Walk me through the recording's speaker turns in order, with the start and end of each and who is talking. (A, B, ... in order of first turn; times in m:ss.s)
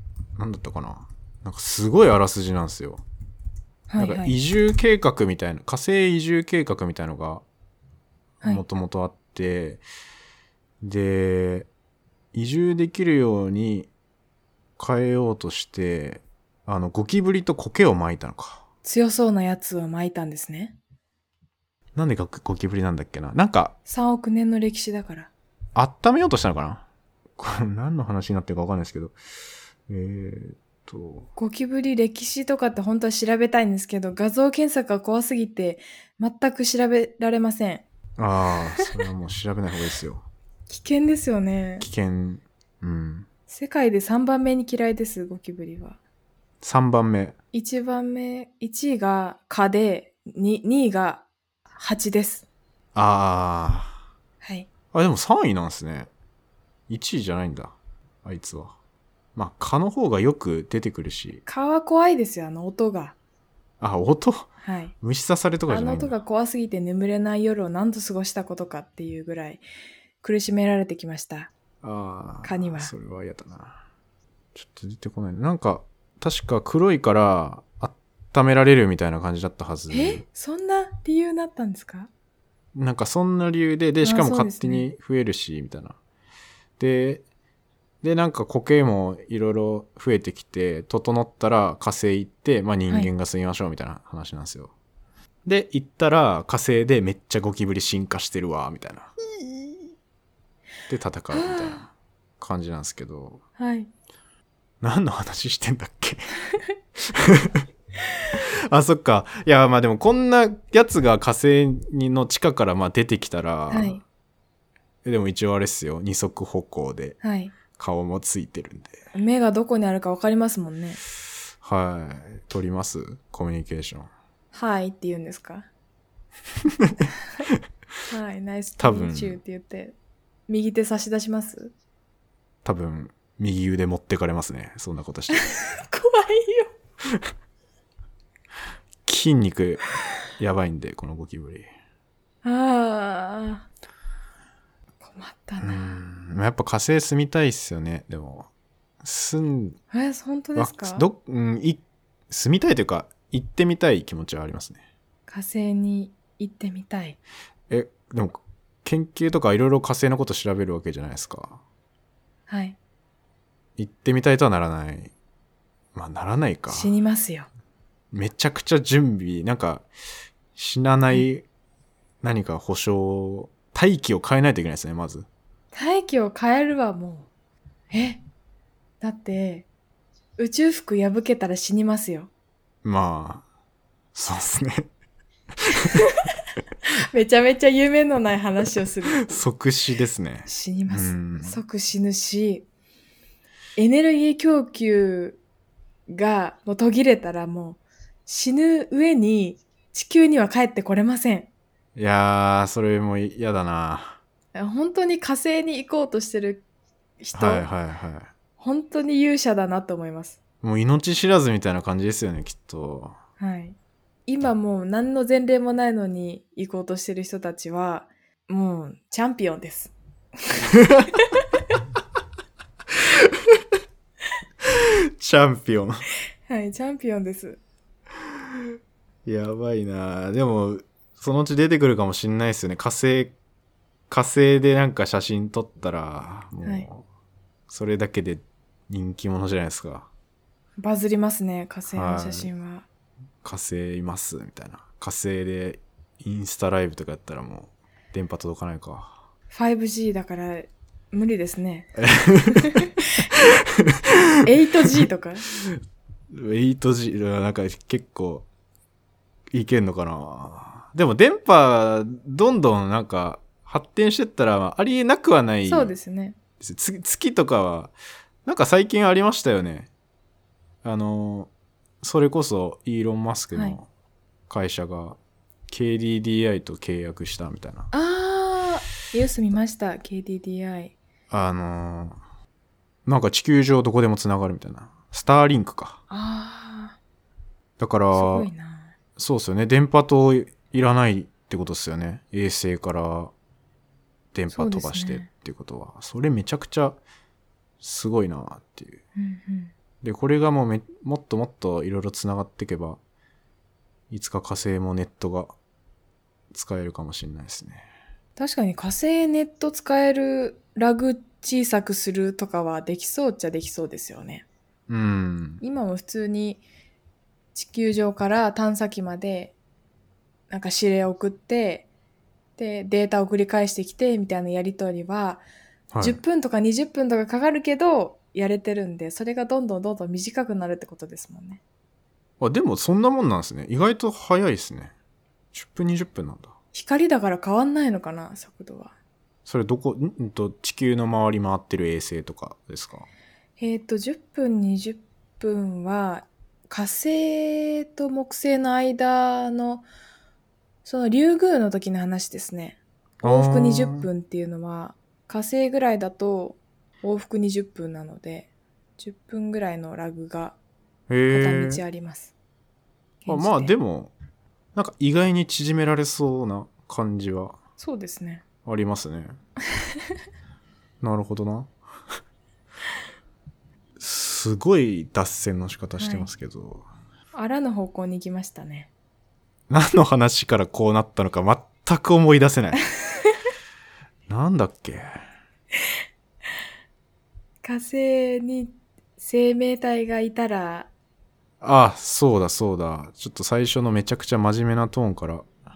0:00.4-0:03.0 A
0:03.9-0:04.4 B
0:04.0-0:07.4 A
0:08.4-0:09.8 A
0:10.8-0:11.7 A
0:12.3-0:13.9 A
0:14.8-0:18.6 A
0:18.8-0:20.8 B
0:21.9-0:23.8 A
0:23.9-0:25.3 B
0:25.8-0:26.8 A
0:27.4-0:29.2 A
0:29.9-0:31.3 A
0:31.4-0:37.8 B
0:38.2-0:40.2 A
0:40.7-0:41.9 B
0:41.8-0:43.3 A
0:43.5-0:46.0 B
0:46.6-0:47.3 A
0:47.5-0:52.5 B
0:53.0-0:54.0 A
0:54.4-0:54.7 B
0:54.9-0:56.1 A
0:56.9-0:58.8 A
0:59.3-1:01.4 A
1:01.5-1:03.2 B
1:03.8-1:06.2 A
1:04.6-1:04.9 B
1:05.7-1:09.6 B
1:10.2-1:11.5 B
1:11.8-1:13.8 A
1:12.4-1:12.9 B
1:14.5-1:20.2 A
1:19.9-1:22.1 B
1:22.8-1:26.0 A
1:24.0-1:24.9 B
1:26.8-1:27.2 A
1:28.0-1:34.7 A
1:35.4-1:39.1 A
1:39.5-1:39.8 B
1:40.9-1:43.4 A
1:41.3-1:41.8 B
1:43.6-1:43.9 B
1:44.8-1:46.3 A
1:47.0-1:47.6 A
1:48.3-1:54.0 A
1:53.7-1:54.0 B
1:55.0-1:57.2 A
1:57.2-1:57.5 B
1:57.7-1:59.0 A
1:59.1-2:01.0 B
2:01.6-2:04.1 A
2:04.5-2:05.7 B
2:06.6-2:07.6 A
2:07.0-2:07.5 B
2:08.1-2:10.0 B
2:08.8-2:09.4 A
2:10.5-2:11.7 B
2:12.6-2:15.5 A
2:15.3-2:16.7 B
2:19.0-2:21.7 A
2:22.4-2:23.7 B
2:25.0-2:26.0 B
2:25.6-2:28.5 A
2:29.0-2:29.8 A
2:29.9-2:31.0 B
2:30.6-2:34.8 A
2:35.3-2:37.2 B
2:37.7-2:41.6 A
2:42.5-2:42.8 B
2:43.8-2:45.1 A
2:46.0-2:46.9 A
2:46.7-2:47.5 B
2:48.1-2:49.9 A
2:50.5-2:51.5 A
2:52.2-2:55.2 A
2:55.7-2:57.3 B
2:57.9-2:58.2 B
2:59.0-2:59.7 B
3:00.4-3:02.3 B
3:02.8-3:03.4 A
3:04.1-3:04.9 A
3:05.7-3:06.0 A
3:05.7-3:06.3 B
3:06.9-3:09.5 B
3:09.2-3:11.6 A
3:10.5-3:12.6 B
3:13.8-3:15.4 B
3:16.1-3:21.5 B
3:22.0-3:24.2 A
3:24.5-3:26.6 B
3:27.2-3:27.6 B
3:27.3-3:28.3 A
3:28.6-3:30.4 B
3:30.6-3:33.2 A
3:33.4-3:41.5 B
3:40.7-3:41.1 A
3:43.0-3:43.6 A
3:44.6-3:46.0 A
3:46.5-3:47.6 B
3:49.2-3:53.3 A
3:54.1-3:57.0 A
3:56.6-3:56.9 B
3:57.7-4:00.1 A
4:00.8-4:02.8 B
4:01.9-4:02.5 A
4:03.4-4:09.2 A
4:09.5-4:12.0 B
4:12.0-4:14.5 A
4:12.5-4:13.3 B
4:14.4-4:15.5 B
4:15.5-4:15.8 A
4:16.3-4:18.5 A
4:19.5-4:25.9 A
4:25.6-4:26.4 B
4:26.6-4:27.9 A
4:28.4-4:29.9 A
4:30.8-4:31.5 A
4:32.0-4:33.9 A
4:34.5-4:37.9 A
4:37.9-4:41.0 B
4:41.3-4:42.2 A
4:43.0-4:46.0 A
4:46.1-4:47.0 B
4:47.8-4:48.5 A
4:48.1-4:49.0 B
4:49.2-4:53.3 A
4:54.3-4:57.0 A
4:54.5-4:55.3 B
4:57.8-4:59.0 A
4:59.2-4:59.7 B
5:00.0-5:03.0 A
5:04.1-5:05.5 A
5:06.5-5:07.9 A
5:08.4-5:14.4 B
5:14.9-5:15.6 A
5:15.6-5:16.6 B
5:17.5-5:19.5 B
5:20.5-5:21.9 B
5:22.6-5:25.4 B
5:25.9-5:26.2 A
5:26.0-5:31.6 B
5:32.4-5:34.9 A
5:35.5-5:36.5 A
5:36.7-5:38.9 B
5:39.5-5:43.1 A
5:43.6-5:49.9 B
5:50.8-6:00.6 B
5:53.2-5:54.1 A
6:01.1-6:01.8 A
6:01.3-6:02.3 B
6:03.2-6:03.7 B
6:03.3-6:04.1 A
6:04.8-6:07.6 A
6:07.8-6:08.4 B
6:08.6-6:09.3 A
6:11.0-6:11.7 A
6:14.0-6:16.8 A
6:16.0-6:16.3 B
6:17.3-6:18.9 B
6:19.7-6:22.8 A
6:24.3-6:25.1 A
6:27.6-6:30.9 B
6:31.6-6:35.5 A